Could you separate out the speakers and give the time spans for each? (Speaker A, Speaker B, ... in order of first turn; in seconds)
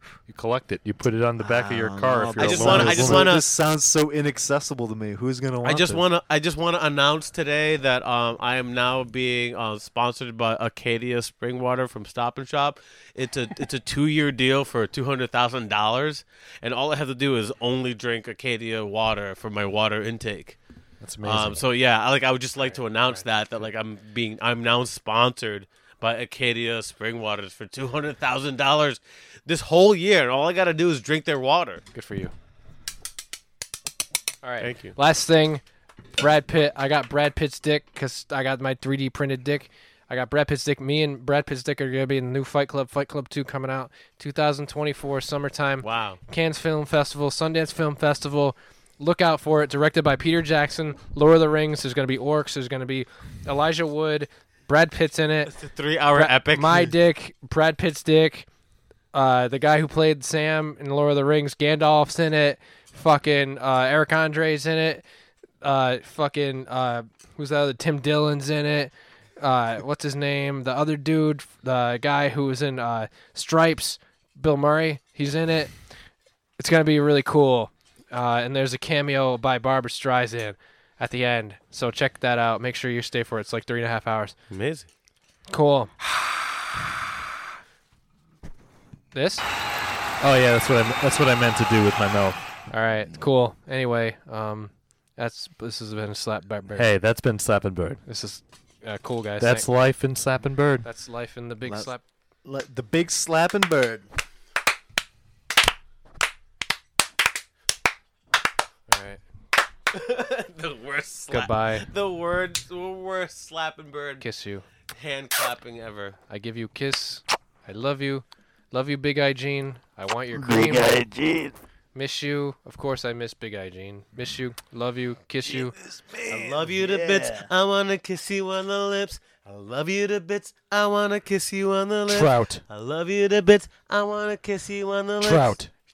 Speaker A: 0.3-3.4, 21.0-21.6, 90.2-92.4, 96.7-98.0, 99.4-100.9, 120.4-121.1, 132.1-132.6, 135.2-135.7
Speaker B: 1.4-6.0, 101.7-101.9, 102.4-104.1, 120.9-121.5, 125.8-127.5
Speaker C: 2.4-3.5, 5.6-20.6, 21.2-31.8, 34.6-35.0, 45.8-46.2, 55.5-56.9, 84.5-84.9, 109.9-114.2, 114.9-116.2, 126.3-135.6
Speaker D: 22.6-23.2, 31.9-32.3, 34.4-35.6, 36.1-55.5, 56.1-58.5, 59.1-65.0, 65.6-75.8, 76.6-84.3, 85.5-85.9, 89.1-89.5, 92.7-96.9, 98.0-99.7, 100.8-102.0, 108.9-109.2, 111.3-111.9, 114.2-114.7, 116.3-121.0, 121.9-125.8